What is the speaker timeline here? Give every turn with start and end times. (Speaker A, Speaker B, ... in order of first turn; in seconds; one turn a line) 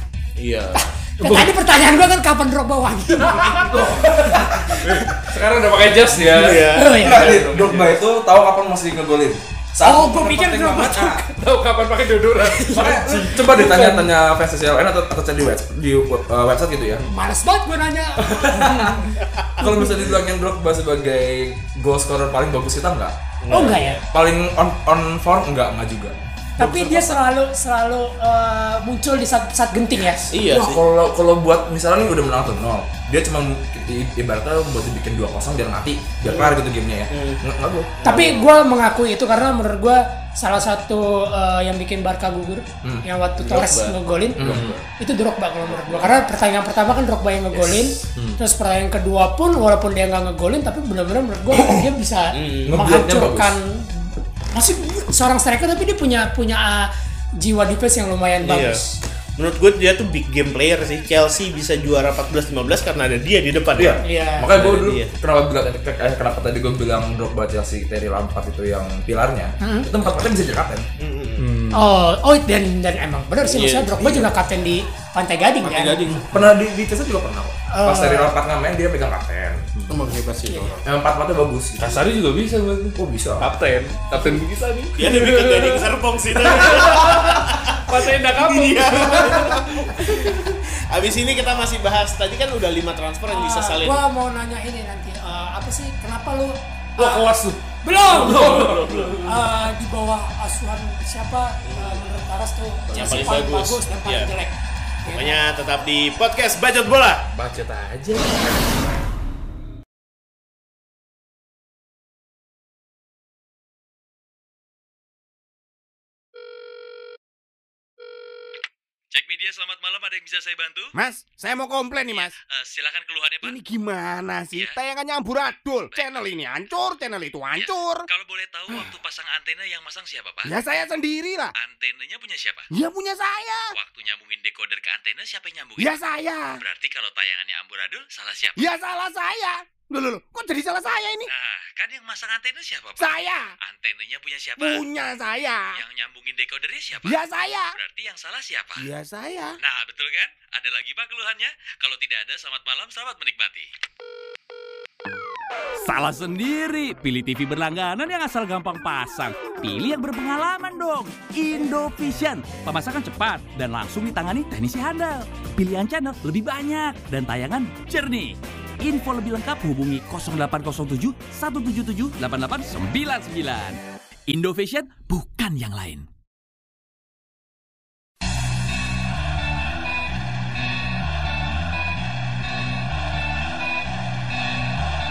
Speaker A: 0.4-0.9
Speaker B: 0.7-3.8
Speaker C: 3.5-4.8
Speaker D: 4.8-7.9
Speaker A: 6.2-7.0
Speaker B: 6.7-7.3
Speaker C: 7.0-11.2
Speaker B: 9.8-11.3
Speaker D: 11.4-13.9
Speaker B: 12.5-14.0
Speaker C: 12.7-17.1
Speaker B: 17.1-19.1
Speaker C: 18.2-19.0
Speaker C: 19.6-23.1
Speaker B: 19.6-19.9
Speaker A: 23.4-24.0
Speaker B: 23.5-24.0
Speaker C: 24.1-27.1
Speaker B: 26.6-30.3
Speaker A: 30.3-30.8
Speaker C: 30.4-37.9
Speaker A: 36.2-36.6
Speaker A: 37.1-37.4
Speaker A: 38.0-38.5
Speaker B: 38.0-44.5
Speaker A: 43.4-44.0
Speaker C: 44.4-44.8
Speaker D: 44.5-44.8
Speaker B: 45.0-59.0
Speaker A: 45.6-46.2
Speaker C: 47.6-47.9
Speaker C: 51.5-51.9
Speaker A: 52.3-52.8
Speaker C: 52.6-53.6
Speaker A: 58.4-58.8
Speaker A: 59.4-64.0
Speaker C: 63.8-70.9
Speaker B: 64.0-64.5
Speaker A: 64.5-65.1
Speaker B: 69.6-69.9
Speaker A: 71.0-71.4
Speaker D: 71.4-71.8
Speaker B: 71.7-76.0
Speaker A: 73.4-74.3
Speaker A: 75.6-76.5
Speaker C: 76.3-79.6
Speaker B: 77.7-78.3
Speaker A: 79.9-80.8
Speaker B: 80.5-80.7
Speaker C: 80.8-82.0
Speaker D: 81.8-90.2
Speaker C: 83.0-83.5
Speaker A: 85.0-94.0
Speaker B: 93.3-97.3
Speaker D: 97.0-99.2
Speaker B: 97.8-105.4
Speaker A: 98.4-99.4
Speaker A: 101.7-102.0
Speaker A: 102.9-104.3
Speaker A: 105.1-107.2
Speaker D: 107.3-108.6
Speaker E: 119.1-120.9
Speaker F: 121.0-122.3
Speaker E: 122.1-123.6
Speaker F: 123.4-128.1
Speaker E: 124.5-124.8
Speaker E: 125.9-126.4
Speaker E: 127.5-130.6
Speaker F: 130.4-131.5
Speaker E: 131.6-132.7
Speaker F: 132.7-133.6
Speaker E: 133.7-136.0
Speaker F: 135.8-136.5
Speaker E: 136.6-138.7
Speaker F: 138.6-141.3
Speaker E: 141.3-144.9
Speaker F: 143.0-143.4
Speaker F: 144.6-145.7
Speaker E: 145.8-148.9
Speaker F: 147.1-147.7
Speaker F: 148.8-149.5
Speaker E: 149.6-153.7
Speaker G: 155.8-176.1